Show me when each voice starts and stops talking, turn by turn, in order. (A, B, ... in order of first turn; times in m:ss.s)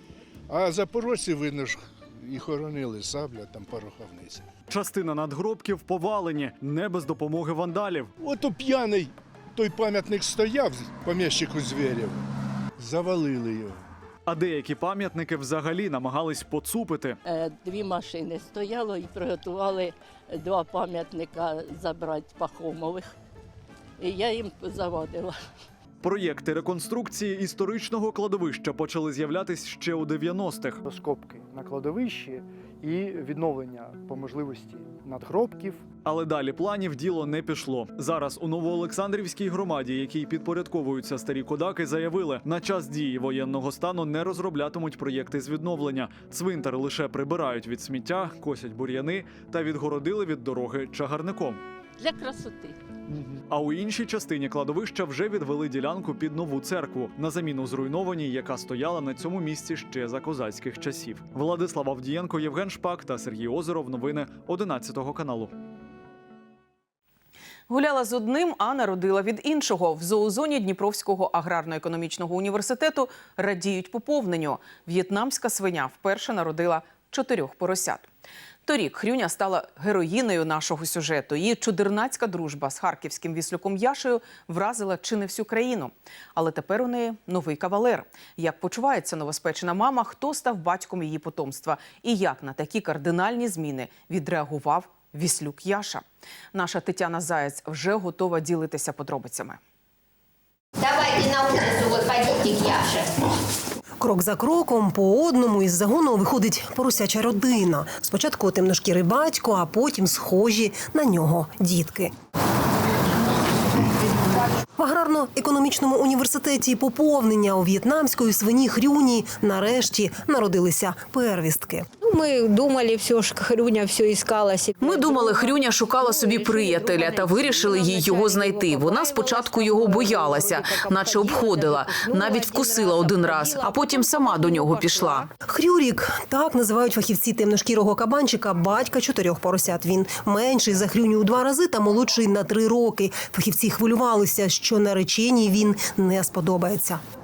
0:00.5-0:04.4 A
0:04.7-0:08.1 B
0:08.2-0:12.2 A
0:12.8-0:13.9 A
0:14.3-0:17.2 B
0:17.2-0:23.1 C
0:24.0-0:25.4 C
0:26.0-0:30.8 B
0:30.8-0:35.8 D
0:36.0-0:51.6 B
0:52.0-0:52.8 C
0:53.1-1:05.5 B
1:07.7-1:18.1 E
1:18.7-1:39.6 E
1:40.8-1:43.1 F
1:44.0-1:52.1 G
1:54.8-2:01.9 G
2:02.0-2:15.2 H
2:04.8-2:15.3 E
2:15.4-2:27.0 G